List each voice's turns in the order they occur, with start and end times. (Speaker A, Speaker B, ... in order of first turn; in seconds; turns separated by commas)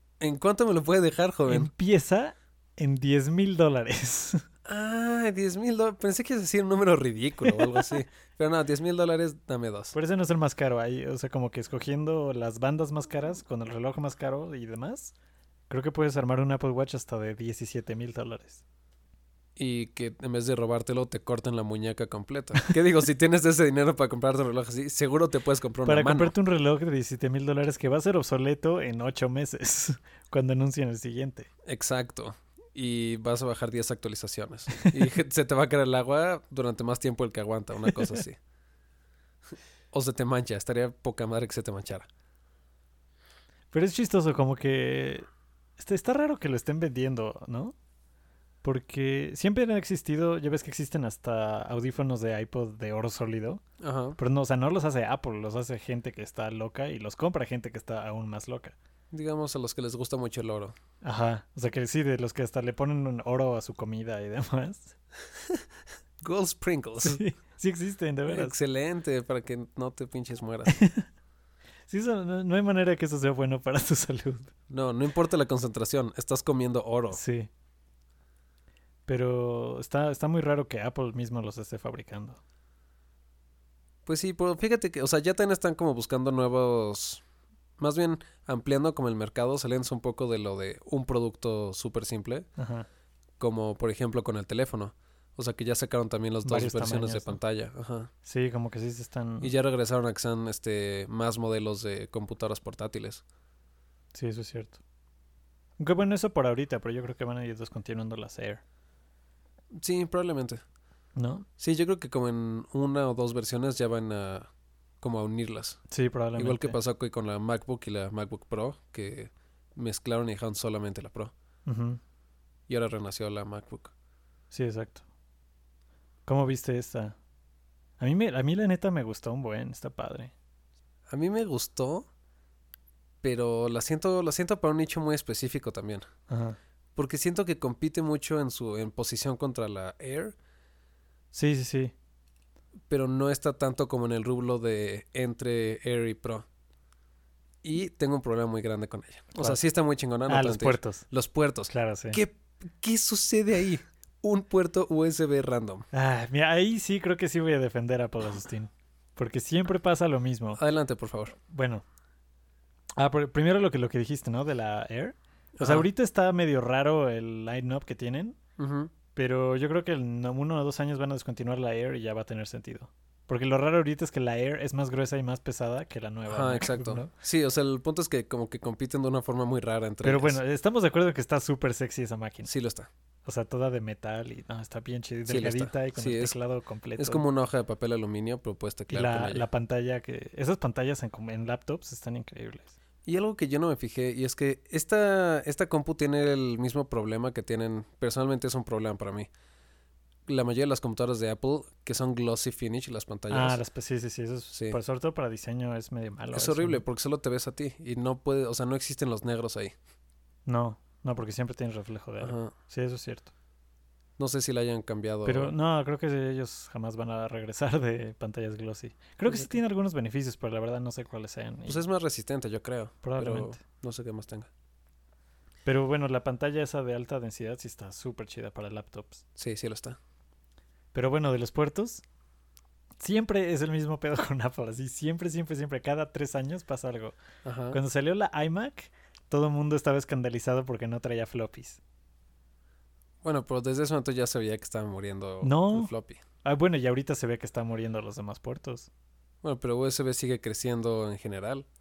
Speaker A: 0.2-1.7, Speaker B: 1.5-4.4, Speaker A: 4.7-9.9, Speaker B: 7.5-7.8, Speaker B: 9.9-15.1, Speaker B: 15.7-18.6, Speaker A: 19.6-26.3, Speaker B: 25.8-31.5, Speaker A: 31.6-38.4, Speaker A: 39.9-42.1, Speaker B: 43.7-45.2, Speaker B: 45.8-47.7, Speaker B: 48.6-53.6, Speaker A: 53.8-54.2, Speaker B: 54.2-58.7, Speaker A: 59.1-60.7, Speaker B: 61.0-64.9, Speaker A: 66.2-67.2, Speaker B: 67.0-68.5, Speaker A: 68.3-70.8, Speaker B: 70.7-71.1, Speaker B: 71.9-74.5, Speaker A: 74.7-77.2, Speaker B: 77.1-77.5, Speaker B: 79.1-82.4, Speaker A: 84.0-87.2, Speaker A: 87.8-92.5, Speaker B: 92.6-92.9, Speaker A: 93.4-98.1, Speaker B: 96.4-97.4, Speaker B: 98.2-99.5, Speaker A: 99.4-103.2, Speaker B: 104.1-104.8, Speaker B: 105.8-108.6, Speaker A: 109.8-110.6, Speaker B: 111.1-111.5, Speaker A: 111.6-114.5, Speaker A: 115.0-115.8, Speaker B: 115.9-116.8, Speaker A: 116.3-121.3, Speaker B: 121.7-122.0, Speaker A: 122.7-123.9, Speaker B: 124.5-125.0, Speaker B: 126.2-127.2, Speaker B: 128.0-130.3, Speaker A: 131.1-132.1, Speaker A: 133.2-136.1, Speaker B: 136.3-136.6, Speaker A: 136.9-140.3, Speaker B: 141.3-141.9, Speaker A: 142.9-146.4, Speaker A: 147.6-155.9, Speaker B: 150.3-151.0, Speaker B: 151.7-152.2, Speaker B: 155.9-160.6, Speaker A: 160.6-161.3, Speaker B: 161.4-161.8, Speaker B: 163.0-168.4, Speaker A: 165.6-165.9, Speaker A: 168.6-168.9, Speaker B: 169.1-177.1, Speaker A: 176.3-180.4, Speaker B: 180.0-182.5, Speaker A: 182.4-182.9, Speaker B: 183.2-187.2, Speaker A: 185.3-186.3, Speaker A: 187.0-189.4, Speaker B: 188.9-192.7, Speaker A: 193.0-199.3, Speaker A: 200.3-203.6, Speaker B: 203.3-206.8, Speaker A: 204.5-204.8, Speaker A: 206.3-209.7, Speaker B: 210.4-213.3, Speaker A: 212.2-212.5, Speaker A: 214.2-215.5, Speaker B: 215.2-221.8, Speaker A: 221.7-224.5, Speaker B: 223.0-223.6, Speaker B: 225.6-229.2, Speaker A: 229.3-230.0, Speaker B: 230.9-232.0, Speaker B: 233.0-237.2, Speaker A: 237.4-237.8, Speaker B: 237.7-241.8, Speaker A: 243.2-246.2, Speaker B: 245.4-245.9, Speaker B: 246.4-248.9, Speaker A: 249.4-251.7